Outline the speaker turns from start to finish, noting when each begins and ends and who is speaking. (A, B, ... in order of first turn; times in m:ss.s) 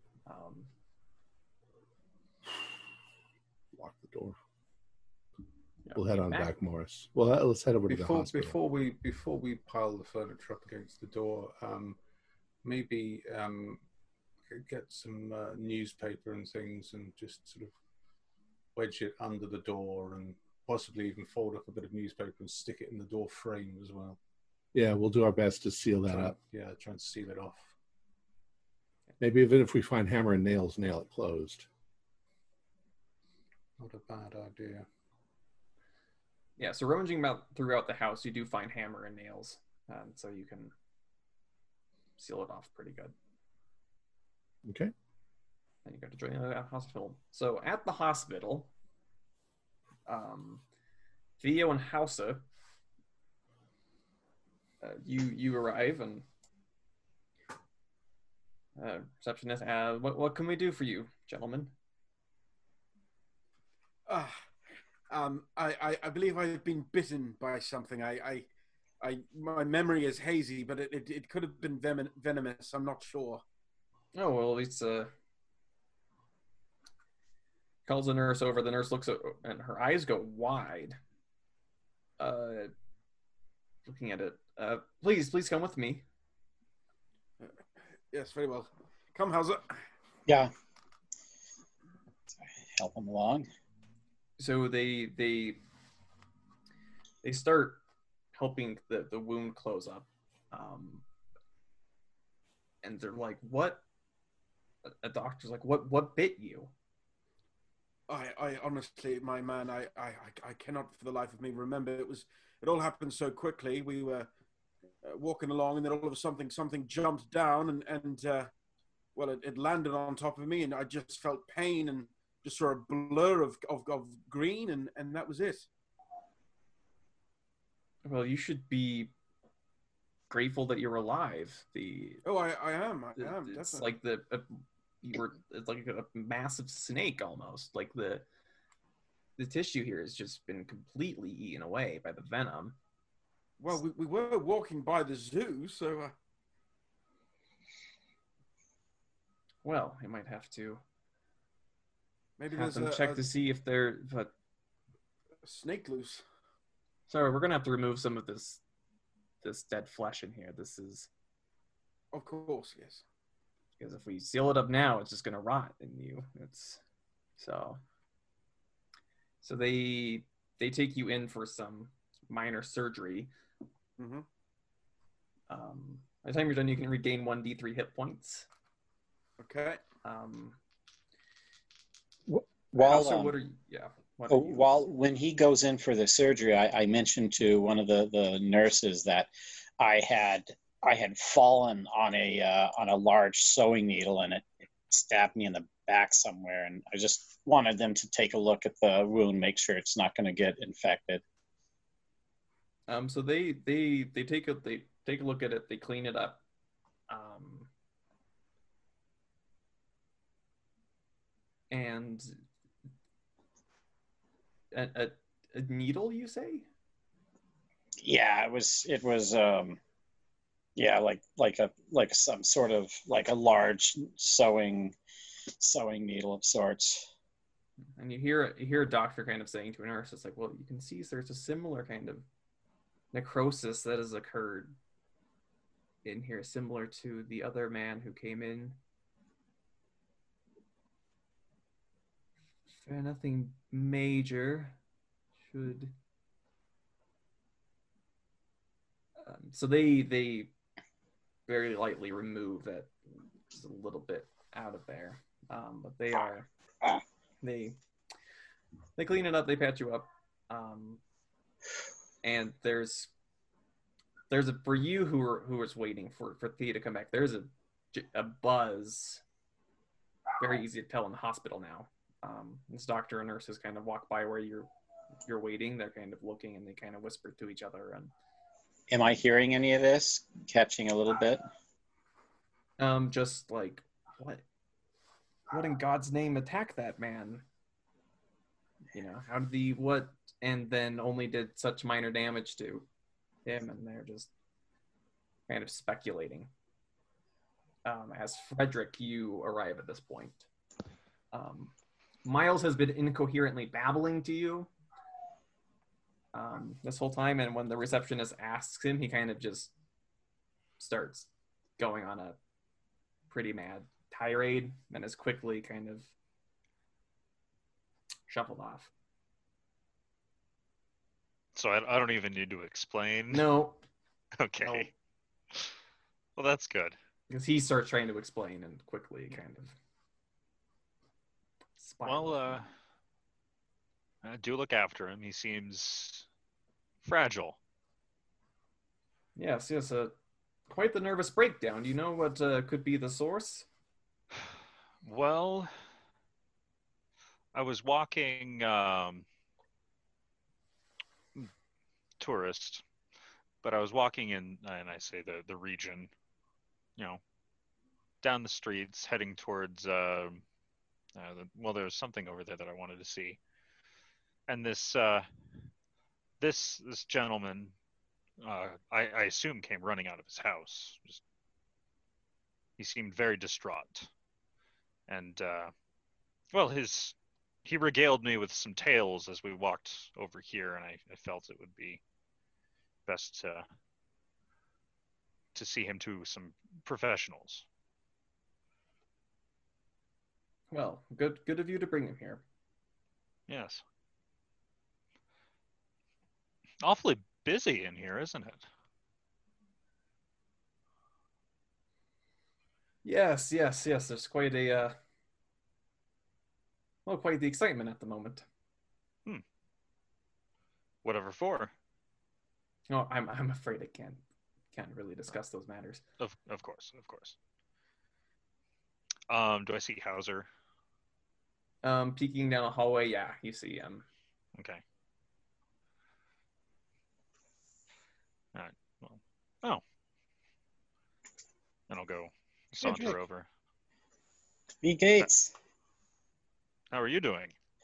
0:00.3-0:00.7 A
0:03.7-0:04.4 B
0:05.8-0:06.5 A
0:05.9-0:08.6 B
0:07.9-0:12.0 C
0:12.6-0:13.8 C
0:14.5-0:17.7 C
0:18.7-0:24.2 C
0:24.7-0:26.4 B
0:26.1-0:27.7 C
0:29.2-0:31.7 B
0:33.8-0:34.8 C
0:36.6-0:40.7 A
0:42.2-0:43.1 A
0:44.6-0:44.9 B
0:45.8-0:48.7 A
0:50.1-0:50.6 A
0:51.4-0:52.4 A
0:54.8-0:56.2 A
0:58.8-1:01.7 A
1:04.1-1:04.4 D
1:05.1-1:08.5 D
1:09.0-1:13.4 D
1:14.1-1:15.1 A
1:17.8-1:21.0 A
1:22.2-1:22.7 A
1:23.8-1:26.0 A
1:28.1-1:29.8 D
1:30.3-1:30.5 E
1:32.4-1:33.5 E
1:34.4-1:35.6 A
1:37.2-1:37.8 A
1:38.3-1:41.0 A
1:42.8-1:43.8 A
1:44.8-1:46.7 A
1:48.1-1:54.3 D
1:55.0-1:58.5 D
1:59.1-2:05.7 D
2:08.0-2:09.1 A
2:10.3-2:12.2 A
2:12.2-2:13.9 D
2:13.2-2:18.2 A
2:19.4-2:22.8 A
2:23.6-2:26.1 D
2:29.6-2:30.8 A
2:32.4-2:33.2 D
2:32.5-2:34.3 A
2:35.4-2:36.2 D
2:37.1-2:38.6 A
2:39.4-2:41.1 A
2:42.1-2:43.0 D
2:43.8-2:46.8 A
2:47.4-2:47.8 A
2:49.4-2:53.3 A
2:54.0-2:54.2 D
2:55.5-2:58.5 A
2:59.4-2:59.8 D
3:00.0-3:00.6 A
3:02.3-3:03.3 E
3:02.8-3:04.8 A
3:04.3-3:21.2 E
3:22.9-3:26.4 A
3:27.1-3:27.7 A
3:31.7-3:32.4 A
3:34.7-3:36.7 A
3:38.0-3:39.8 E
3:40.8-3:44.9 E
3:45.6-3:47.1 E
3:48.0-3:52.2 A
3:53.1-3:54.8 A
3:56.0-3:58.8 A
4:02.7-4:04.8 A
4:05.4-4:05.9 A
4:09.2-4:10.5 A
4:11.5-4:12.9 A
4:13.5-4:16.5 A
4:17.4-4:17.8 A
4:19.0-4:21.0 A
4:22.2-4:23.1 A
4:24.3-4:29.2 A
4:30.4-4:34.7 A
4:35.2-4:38.1 A
4:38.9-4:41.4 E
4:42.8-4:44.4 A
4:45.5-4:47.4 A
4:48.9-4:52.8 A
4:53.4-4:54.3 A
4:55.5-4:56.5 A
4:57.8-5:00.5 A
5:01.3-5:01.7 A
5:02.2-5:04.7 A
5:06.3-5:09.7 A
5:10.8-5:12.4 A
5:13.3-5:16.1 A
5:18.3-5:18.9 A
5:21.5-5:23.5 F
5:23.3-5:23.8 A
5:24.4-5:24.9 F
5:24.6-5:24.9 C
5:26.4-5:26.9 F
5:27.3-5:29.7 A
5:31.8-5:32.6 A
5:32.0-5:32.7 F
5:34.2-5:36.2 F
5:37.0-5:37.6 F
5:39.4-5:40.1 A
5:40.7-5:43.7 A
5:45.0-5:45.7 F
5:47.5-5:49.2 F
5:52.2-5:52.8 F
5:53.6-5:56.1 F
5:58.2-6:00.4 F
6:01.1-6:03.4 F
6:04.5-6:05.3 F
6:06.4-6:07.7 F
6:08.4-6:11.2 F
6:12.8-6:14.1 F
6:15.1-6:15.7 F
6:16.5-6:22.0 F
6:23.0-6:23.6 F
6:25.5-6:27.6 F
6:30.7-6:32.4 A
6:33.5-6:33.8 F
6:36.8-6:38.6 F
6:43.0-6:45.0 A
6:47.0-6:48.4 A
6:51.0-6:51.7 F
6:52.9-6:54.2 A
6:54.7-6:56.0 A
6:56.2-6:57.4 F
6:59.3-7:00.5 F
7:01.8-7:04.0 A
7:04.6-7:04.8 F
7:08.5-7:09.8 F
7:11.9-7:13.5 F
7:12.8-7:13.2 E
7:14.8-7:15.5 E
7:16.9-7:17.5 F